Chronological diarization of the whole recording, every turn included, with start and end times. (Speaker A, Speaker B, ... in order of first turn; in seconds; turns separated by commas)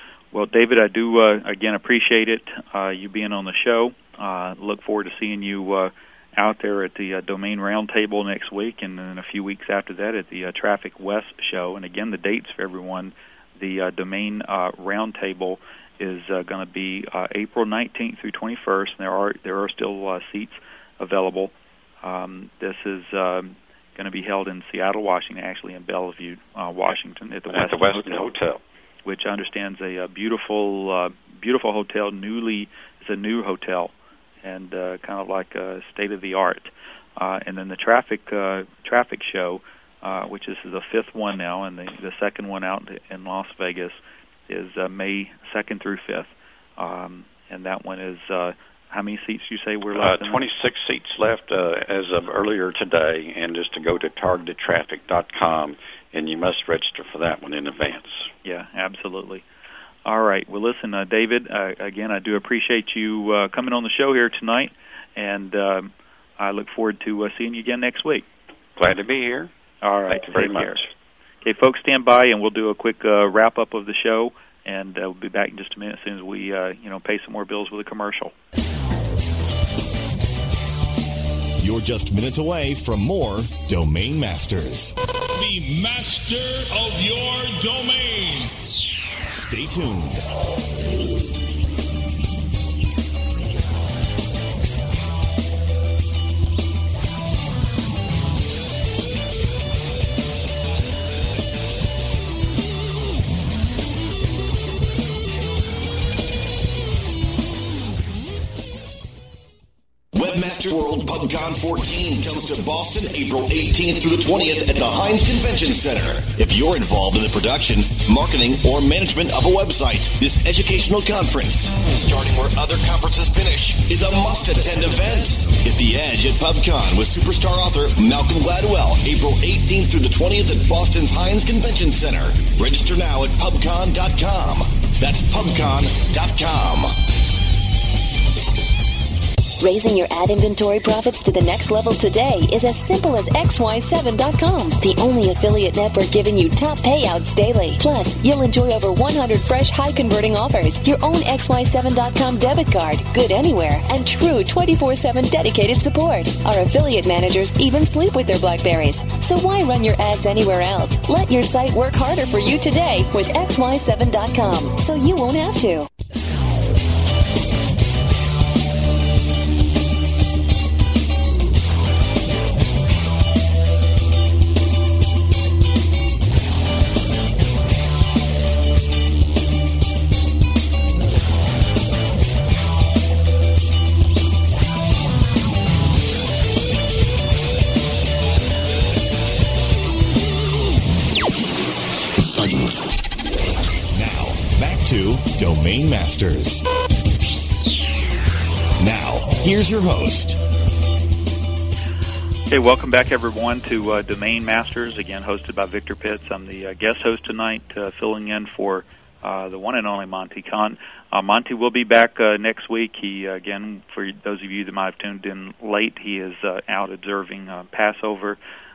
Speaker A: 0.3-28.3, Speaker B: 27.5-28.6, Speaker A: 29.1-33.9, Speaker A: 34.4-50.4, Speaker B: 49.9-58.3, Speaker A: 58.4-59.4, Speaker A: 60.0-68.2, Speaker B: 68.8-69.5, Speaker A: 69.8-70.8, Speaker B: 70.1-70.9, Speaker A: 71.4-78.3, Speaker C: 81.6-84.9, Speaker D: 85.4-88.6, Speaker C: 89.3-90.2, Speaker C: 110.1-136.9, Speaker E: 139.6-165.9, Speaker C: 193.9-196.6, Speaker C: 198.8-200.4, Speaker A: 202.5-218.4